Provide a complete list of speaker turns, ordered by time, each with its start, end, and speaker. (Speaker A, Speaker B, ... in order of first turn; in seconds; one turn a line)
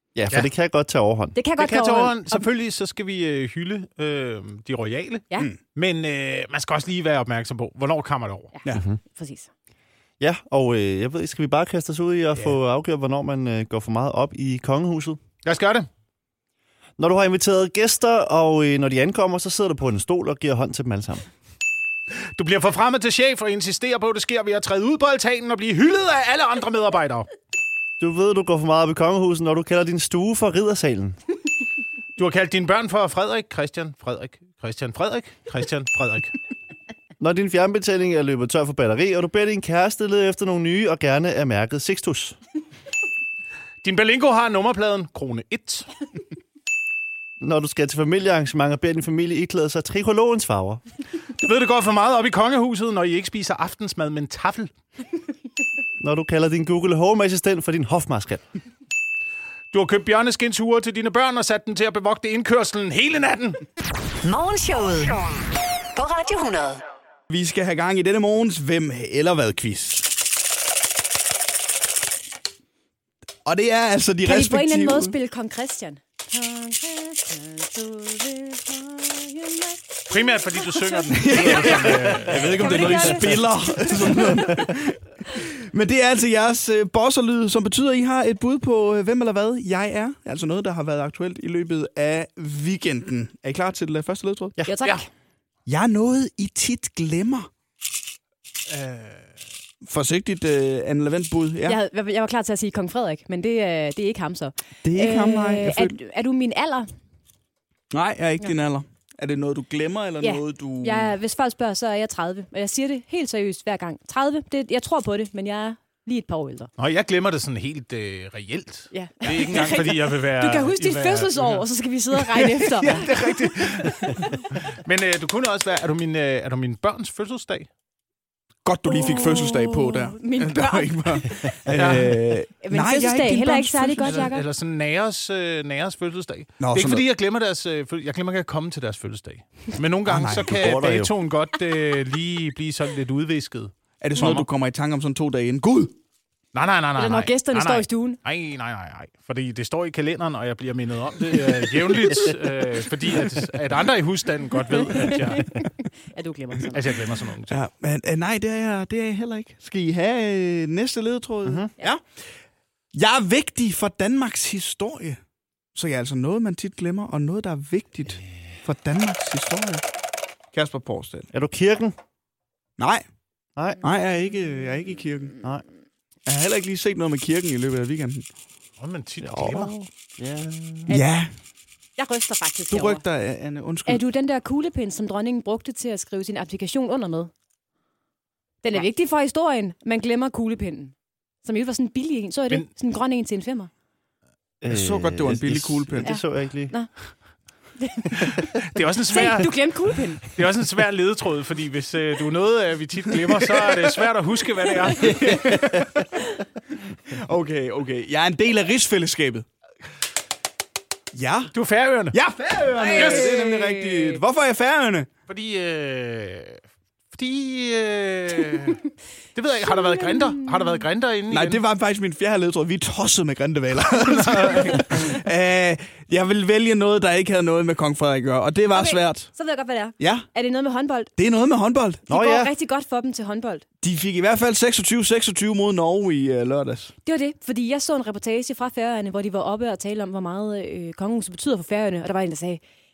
Speaker A: 0.1-1.4
Speaker B: 1.4-2.5
Speaker C: 1.6-8.5
Speaker B: 8.6-9.5
Speaker A: 8.8-9.0
Speaker A: 10.2-15.2
Speaker C: 15.4-15.9
Speaker A: 17.0-21.3
Speaker C: 22.4-27.3
Speaker A: 28.0-31.2
Speaker C: 32.2-36.3
Speaker A: 37.2-42.4
Speaker C: 43.8-45.9
Speaker A: 47.4-50.8
Speaker C: 51.4-54.7
Speaker A: 56.0-58.4
Speaker C: 59.7-63.6
Speaker D: 64.2-65.2
Speaker D: 65.9-66.8
Speaker E: 67.3-70.1
Speaker E: 73.5-75.2
Speaker B: 74.2-84.2
Speaker C: 80.1-83.2
Speaker E: 81.1-94.5
Speaker A: 84.3-84.7
Speaker B: 94.7-95.1
Speaker E: 95.7-97.5
Speaker C: 98.7-99.3
Speaker E: 99.8-101.8
Speaker B: 101.6-106.9
Speaker E: 104.8-106.0
Speaker E: 107.9-111.2
Speaker B: 110.2-116.7
Speaker C: 116.8-127.7
Speaker B: 118.9-123.1
Speaker B: 124.1-124.4
Speaker E: 128.7-134.3
Speaker B: 128.9-131.6
Speaker C: 131.8-132.2
Speaker B: 132.6-134.4
Speaker C: 134.0-144.5
Speaker E: 136.6-137.0
Speaker E: 140.1-140.5
Speaker A: 140.4-141.1
Speaker E: 144.0-145.9
Speaker C: 146.5-155.5
Speaker B: 147.0-148.2
Speaker B: 154.8-156.9
Speaker C: 156.7-157.6
Speaker E: 157.5-162.0
Speaker A: 161.4-161.7
Speaker E: 162.9-165.2
Speaker E: 165.8-169.8
Speaker E: 170.5-171.3
Speaker A: 171.3-172.0
Speaker E: 172.8-173.0
Speaker A: 173.6-173.8
Speaker E: 173.8-175.4
Speaker E: 176.3-178.3
Speaker C: 178.8-179.7
Speaker A: 179.2-180.9
Speaker E: 180.9-181.3
Speaker B: 182.0-183.0
Speaker E: 182.7-184.0
Speaker B: 183.9-187.3
Speaker B: 188.6-193.7
Speaker A: 194.6-196.8
Speaker E: 194.7-196.2
Speaker B: 196.1-196.9
Speaker B: 197.8-198.4
Speaker C: 198.7-199.6
Speaker B: 199.1-200.3
Speaker C: 200.3-205.4
Speaker E: 205.0-206.0
Speaker E: 207.1-209.5
Speaker E: 211.1-211.5
Speaker C: 211.5-212.2
Speaker E: 212.1-215.1
Speaker B: 212.8-214.2
Speaker C: 212.9-213.3
Speaker C: 215.3-216.6
Speaker C: 217.1-218.8
Speaker C: 219.3-221.6
Speaker B: 219.9-220.8
Speaker E: 221.3-229.3
Speaker B: 228.7-231.1
Speaker E: 230.0-230.3
Speaker E: 231.2-232.1
Speaker B: 232.1-233.7
Speaker A: 232.1-232.5
Speaker E: 233.8-236.9
Speaker B: 237.1-242.6